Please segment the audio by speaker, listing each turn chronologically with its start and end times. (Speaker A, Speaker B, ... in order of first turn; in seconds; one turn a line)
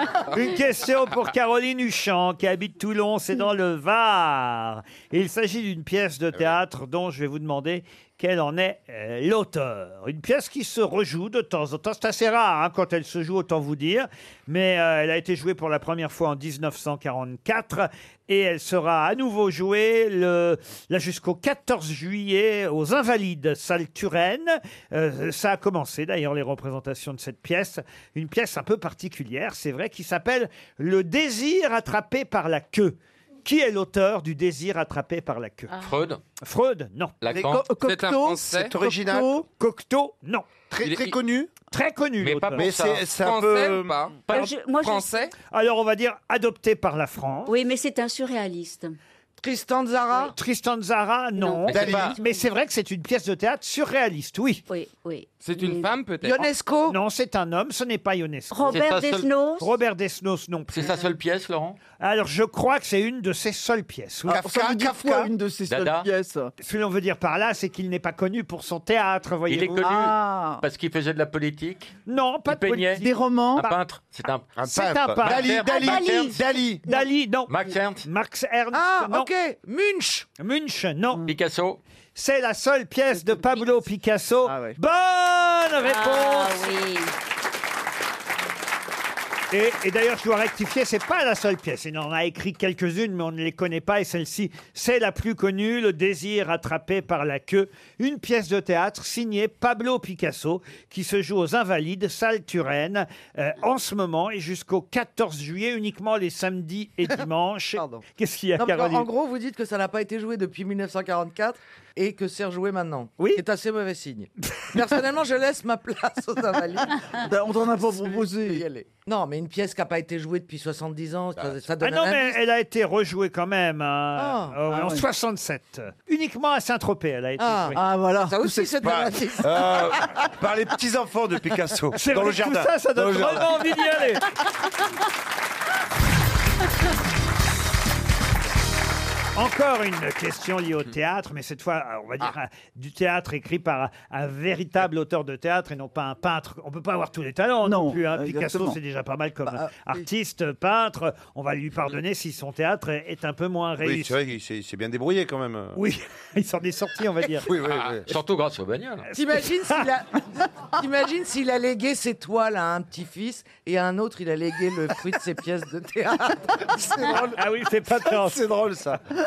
Speaker A: 0.3-35.7
Speaker B: 35.8-36.2
Speaker A: 36.4-37.2
Speaker B: 37.2-37.7
Speaker C: 37.3-37.6
Speaker D: 37.3-39.4
Speaker E: 37.7-38.7
Speaker C: 38.5-39.3
Speaker A: 39.6-40.5
Speaker C: 40.7-41.5
Speaker E: 40.8-41.1
Speaker A: 41.7-42.7
Speaker B: 42.2-43.0
Speaker C: 42.6-44.0
Speaker E: 43.1-44.2
Speaker F: 44.3-45.3
Speaker E: 44.7-45.3
Speaker A: 45.5-47.5
Speaker F: 47.5-49.0
Speaker G: 49.4-50.3
Speaker A: 50.2-54.6
Speaker F: 51.4-52.4
Speaker B: 51.7-52.1
Speaker C: 51.7-52.1
Speaker F: 54.7-55.9
Speaker E: 55.4-56.5
Speaker G: 56.2-57.0
Speaker A: 56.9-58.9
Speaker F: 58.5-59.7
Speaker B: 58.6-59.3
Speaker A: 59.6-61.0
Speaker B: 60.7-61.8
Speaker A: 62.0-64.4
Speaker D: 64.3-66.5
Speaker C: 64.3-65.3
Speaker B: 65.7-66.1
Speaker A: 66.6-69.9
Speaker B: 69.5-71.9
Speaker D: 69.8-70.6
Speaker A: 72.1-73.0
Speaker B: 72.5-73.0
Speaker D: 73.0-73.7
Speaker B: 73.5-74.5
Speaker C: 74.5-76.8
Speaker A: 74.6-75.6
Speaker B: 75.2-76.4
Speaker F: 75.6-77.1
Speaker A: 76.9-79.3
Speaker B: 77.5-78.0
Speaker G: 78.7-80.3
Speaker A: 80.4-81.3
Speaker B: 81.2-81.8
Speaker A: 82.1-86.7
Speaker F: 83.3-83.6
Speaker D: 84.4-84.8
Speaker F: 85.8-87.1
Speaker A: 89.5-109.1
Speaker G: 107.8-108.0
Speaker G: 108.6-117.1
Speaker A: 114.5-114.8
Speaker D: 117.2-118.6
Speaker G: 117.8-122.3
Speaker A: 121.8-127.8
Speaker G: 124.2-124.6
Speaker D: 124.7-125.0
Speaker G: 127.4-130.1
Speaker D: 127.7-128.9
Speaker C: 128.8-133.5
Speaker A: 131.9-134.3
Speaker A: 139.3-154.2
Speaker D: 147.6-148.8
Speaker C: 153.8-155.8
Speaker A: 155.7-157.5
Speaker C: 157.4-158.1
Speaker B: 158.0-159.1
Speaker G: 159.1-167.1
Speaker A: 159.2-159.9
Speaker C: 166.8-169.0
Speaker A: 167.3-168.4